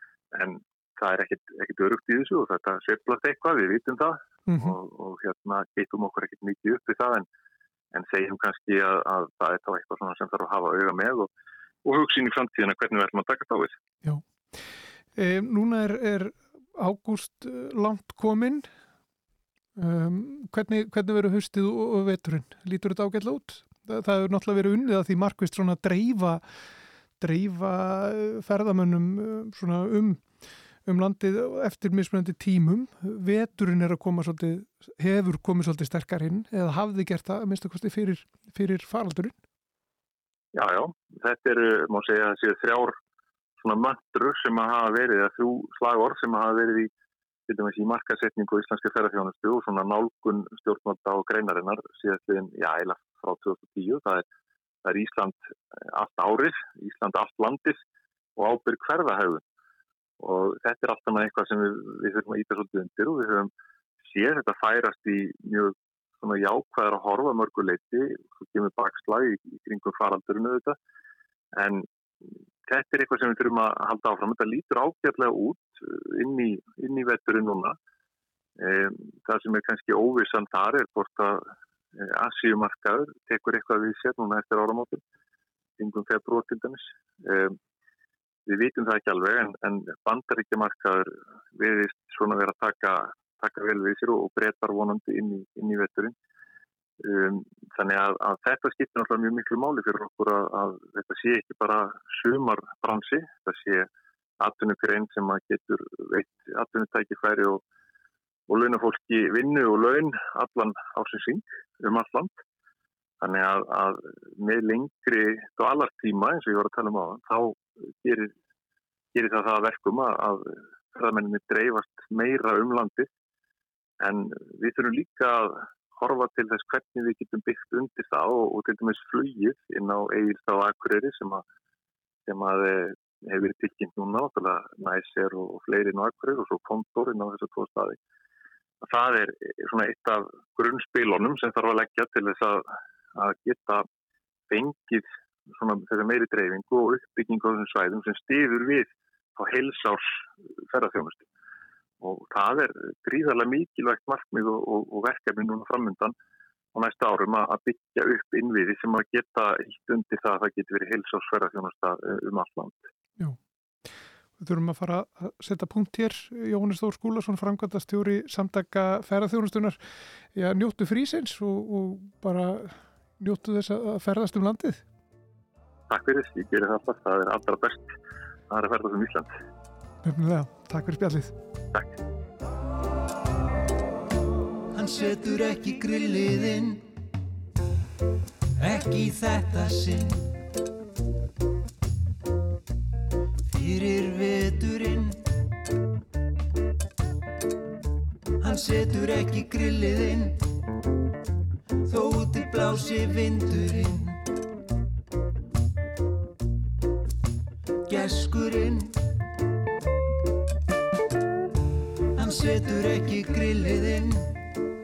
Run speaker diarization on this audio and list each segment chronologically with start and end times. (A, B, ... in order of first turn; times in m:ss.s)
0:00.3-0:07.3 A
0:04.5-0:04.8 B
0:07.9-0:11.3 A
0:11.8-0:13.8 A
0:15.1-0:18.7 B
0:19.8-0:26.4 B
0:27.2-0:30.3 B
0:30.8-0:39.4 B
0:40.5-0:43.0 A
0:43.6-0:46.9 A
0:47.5-0:54.3 A
0:54.8-0:55.4 A
0:55.9-0:57.8 A
0:58.4-0:59.4 A
1:00.2-1:03.5 A
1:04.0-1:10.8 A
1:11.6-1:11.9 A
1:12.7-1:17.8 A
1:18.6-1:21.4 A
1:22.0-1:25.0 A
1:25.8-1:27.6 A
1:28.5-1:36.1 A
1:37.0-1:43.9 A
1:44.4-1:47.6 A
1:48.5-1:52.4 A
1:53.2-1:58.3 A
1:59.1-2:03.1 A
2:04.0-2:11.4 A
2:12.3-2:18.0 A
2:18.8-2:23.9 A
2:24.5-2:31.3 A
2:32.0-2:36.1 A
2:36.7-2:42.9 A
2:44.4-2:49.8 B
2:50.3-2:54.8 B
2:55.9-2:57.9 A
2:58.5-2:59.3 A
3:00.0-3:01.3 B
3:04.8-3:06.8 C
3:08.6-3:10.3 C
3:13.5-3:15.2 C
3:18.4-3:20.4 C
3:21.8-3:24.2 C
3:27.9-3:28.9 C
3:32.2-3:34.4 C